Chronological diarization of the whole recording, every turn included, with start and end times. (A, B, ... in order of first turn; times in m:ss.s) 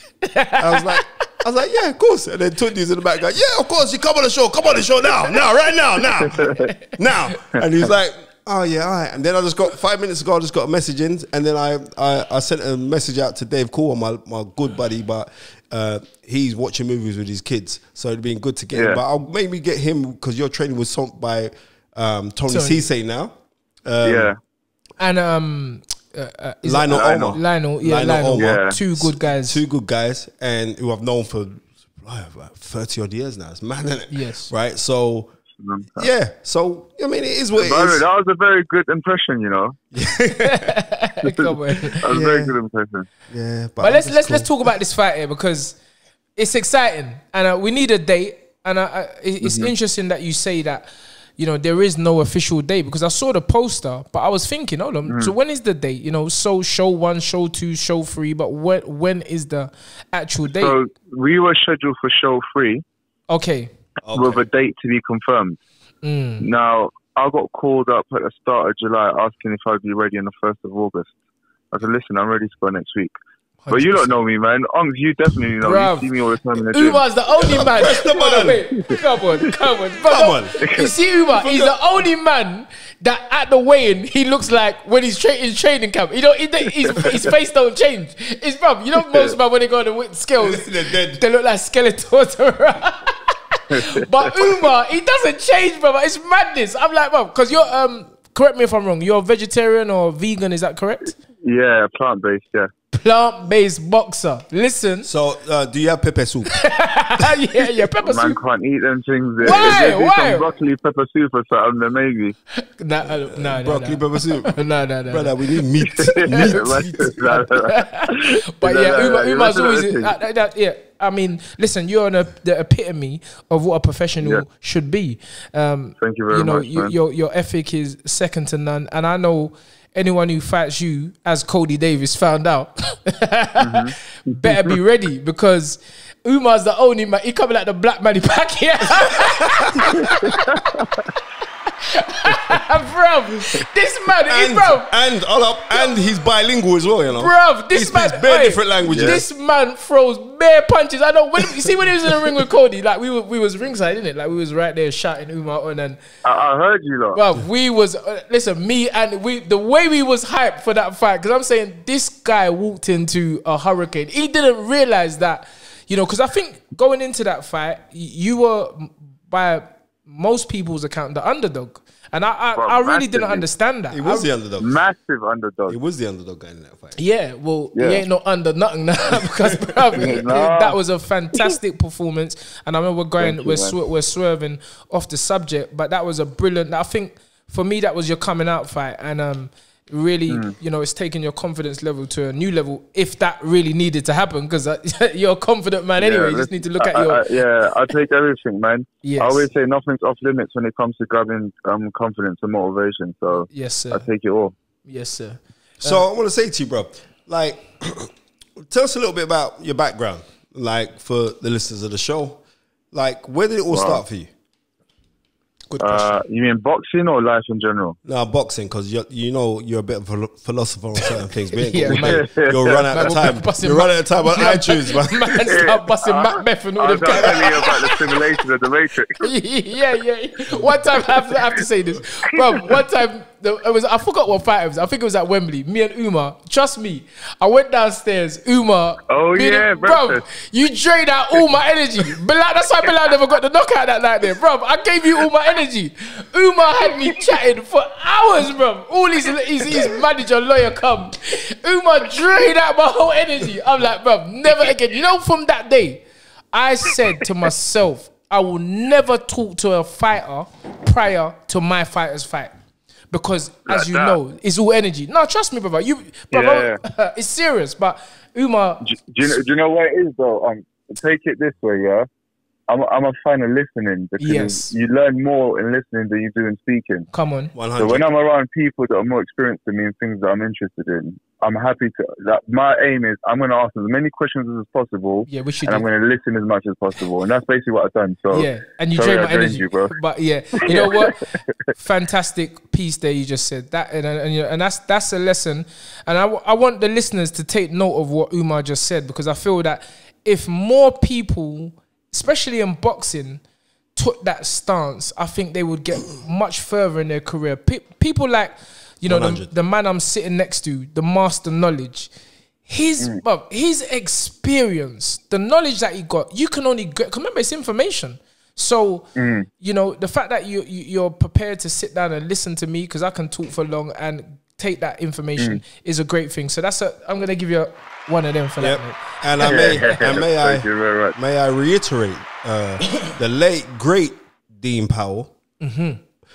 0:00.2-0:01.0 A
0:00.6-0:23.3 B
0:18.7-0:19.0 C
0:22.5-0:22.8 A
0:23.9-0:24.3 B
0:24.0-0:24.4 C
0:25.0-0:29.6 A
0:26.6-0:35.3 B
0:26.9-0:27.4 C
0:28.4-0:28.8 C
0:34.1-0:34.5 A
0:35.6-0:36.1 C
0:36.0-0:38.1 B
0:37.6-0:39.8 C
0:39.9-0:40.8 B
0:40.4-0:42.0 A
0:41.3-0:43.1 C
0:42.1-0:42.6 B
0:43.3-0:44.5 B
0:43.8-0:45.8 A
0:46.4-1:00.8 A
0:49.4-0:49.7 C
0:55.1-0:55.3 C
1:00.5-1:02.8 C
1:03.3-1:03.7 A
1:04.0-1:04.4 B
1:04.1-1:05.6 C
1:06.0-1:06.5 A
1:06.4-1:11.1 C
1:11.7-1:13.1 C
1:13.6-1:14.1 A
1:13.7-1:17.0 C
1:15.6-1:16.1 A
1:16.7-1:41.2 A
1:17.4-1:18.7 B
1:20.1-1:20.5 B
1:20.6-1:20.9 C
1:21.3-1:21.8 B
1:30.4-1:31.2 B
1:33.7-1:34.0 C
1:41.4-1:42.7 C
1:42.9-1:45.1 A
1:45.0-1:46.5 B
1:46.5-1:48.4 A
1:48.1-1:52.4 C
1:49.4-1:50.5 A
1:52.6-1:55.4 A
1:53.3-1:54.6 B
1:55.1-1:57.2 B
1:56.0-2:00.2 C
1:56.0-2:20.6 A
2:06.0-2:06.9 C
2:13.6-2:14.8 C
2:19.0-2:20.0 B
2:21.8-2:24.9 A
2:24.2-2:29.2 B
2:27.2-2:36.0 A
2:28.9-2:29.2 C
2:32.0-2:32.4 B
2:36.2-2:37.2 C
2:37.1-2:54.3 A
2:52.6-2:53.5 C
2:53.9-2:54.7 B
2:54.6-2:55.8 C
2:55.7-2:57.0 B
2:57.0-3:17.3 A
2:57.8-2:58.0 C
3:00.0-3:00.8 C
3:03.2-3:03.8 C
3:10.3-3:10.6 C
3:16.0-3:24.5 C
3:19.0-3:19.5 A
3:23.5-3:24.0 A
3:24.8-3:26.0 A
3:25.8-3:34.3 B
3:33.7-3:34.0 C
3:35.7-3:36.1 A
3:35.8-3:38.0 C
3:38.0-3:45.6 B
3:41.6-3:42.3 A
3:41.8-3:43.0 C
3:42.9-3:48.2 A
3:45.4-3:49.3 C
3:49.2-4:22.5 A
3:59.1-4:00.2 C
4:23.1-4:28.8 A
4:23.7-4:24.2 C
4:26.3-4:26.8 C
4:28.8-4:32.1 C
4:32.7-4:37.1 C
4:34.2-4:34.7 A
4:37.1-4:37.5 A
4:37.6-4:38.1 B
4:37.8-4:50.0 C
4:45.3-4:45.8 A
4:48.3-5:03.4 A
4:50.6-4:51.2 C
5:04.0-5:12.1 A
5:09.1-5:09.5 B
5:12.7-5:19.1 A
5:19.2-5:19.5 C
5:19.6-5:29.9 A
5:28.6-5:35.3 B
5:29.4-5:31.2 C
5:35.6-5:36.0 A